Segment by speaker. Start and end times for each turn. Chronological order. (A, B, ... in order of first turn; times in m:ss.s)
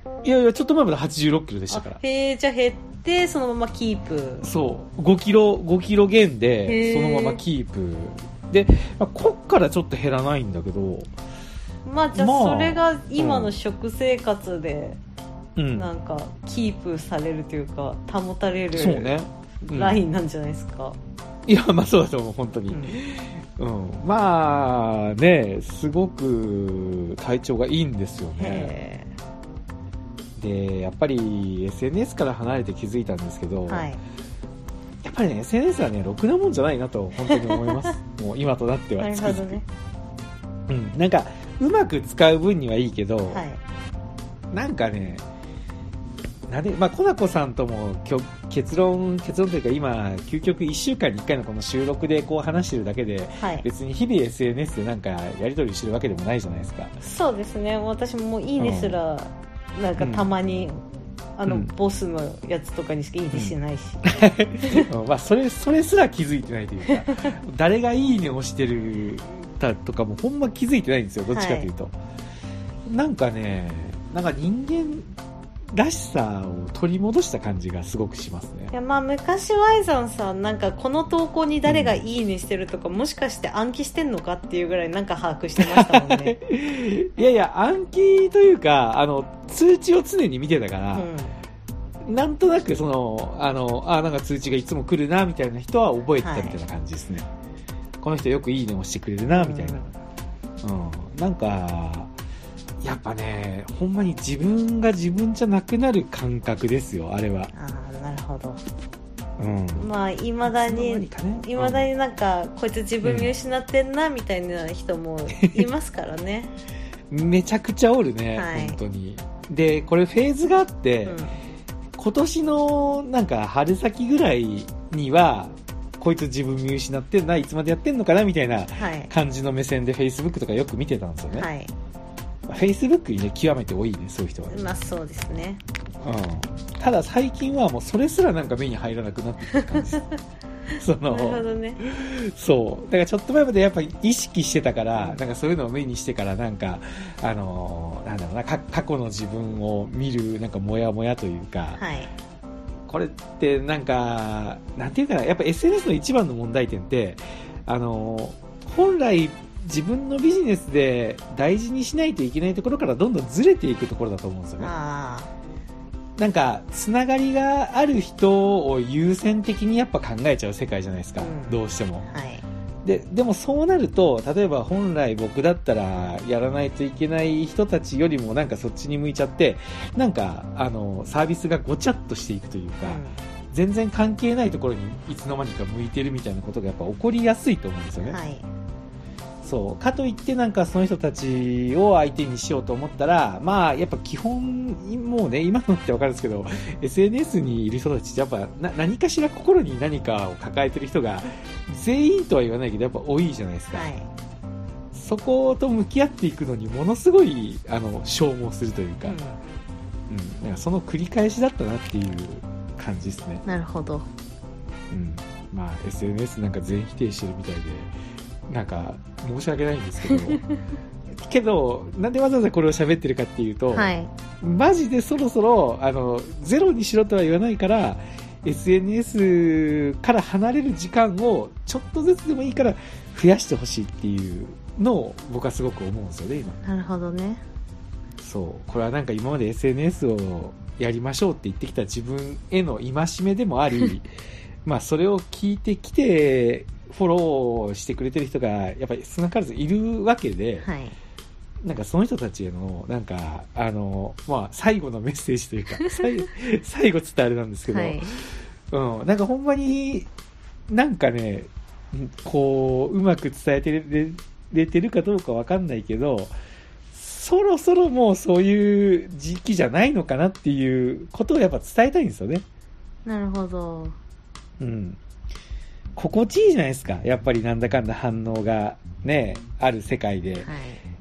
0:00.2-0:02.0 A
0:01.7-0:04.5 B
0:04.4-0:11.1 A
0:06.6-0:07.4 B
0:11.8-0:15.0 B
0:12.1-0:13.5 A
0:15.6-0:15.9 A
0:15.7-0:19.1 B
0:18.7-0:20.0 A
0:19.6-0:21.0 B
0:21.4-0:28.7 A
0:22.7-0:23.0 B
0:28.4-0:29.1 B
0:30.4-0:33.9 A
0:33.7-0:34.0 B
0:35.0-0:39.6 A
0:37.2-0:37.9 B
0:39.0-0:39.6 B
0:40.7-0:43.4 A
0:43.2-0:43.6 B
0:44.5-0:45.2 A
0:46.5-0:56.9 A
0:53.4-0:53.6 B
0:57.0-1:00.8 B
0:58.6-0:59.0 A
1:00.0-1:00.3 A
1:01.4-1:04.9 B
1:03.3-1:11.9 A
1:06.8-1:07.4 B
1:11.3-1:11.7 B
1:12.8-1:15.1 A
1:15.7-1:18.7 A
1:18.7-1:26.4 B
1:21.7-1:22.0 A
1:25.6-1:31.1 A
1:30.9-1:31.4 B
1:32.0-1:37.3 A
1:36.2-1:36.6 B
1:38.0-1:39.8 A
1:39.3-1:39.9 B
1:40.6-1:42.1 A
1:42.8-1:47.5 A
1:47.5-1:48.6 B
1:49.4-1:49.9 A
1:49.7-1:56.5 B
1:50.4-1:51.9 A
1:53.0-1:53.3 A
1:55.4-1:55.6 A
1:57.1-2:01.2 A
1:58.3-1:58.8 B
2:01.0-2:01.4 B
2:02.0-2:11.5 A
2:08.8-2:09.1 B
2:11.3-2:11.7 B
2:12.5-2:14.6 A
2:14.5-2:15.6 B
2:16.0-2:20.0 A
2:19.5-2:20.0 B
2:20.7-2:21.8 B
2:20.8-2:31.8 A
2:31.8-2:32.1 B
2:32.9-2:44.7 A
2:44.6-2:45.3 B
2:46.2-2:52.0 A
2:51.2-2:52.4 B
2:52.8-3:08.2 A
3:02.8-3:03.2 B
3:08.0-3:08.5 B
3:09.4-3:23.9 A
3:23.7-3:24.1 B
3:24.9-3:29.2 A
3:29.0-3:29.4 B
3:30.1-3:33.4 A
3:33.4-3:34.1 B
3:34.9-3:37.9 A
3:38.5-3:40.4 A
3:40.0-3:40.5 B
3:41.2-3:56.6 A
3:43.7-3:44.1 B
3:56.6-3:57.4 B
3:58.2-4:04.1 A
4:04.6-4:10.7 A
4:10.6-4:11.0 B
4:11.6-4:20.1 A
4:15.8-4:16.1 B
4:17.7-4:18.2 B
4:20.7-4:26.3 A
4:26.9-4:32.4 A
4:33.0-4:34.0 B
4:34.6-4:35.0 A
4:36.0-4:40.5 A
4:40.4-4:40.8 B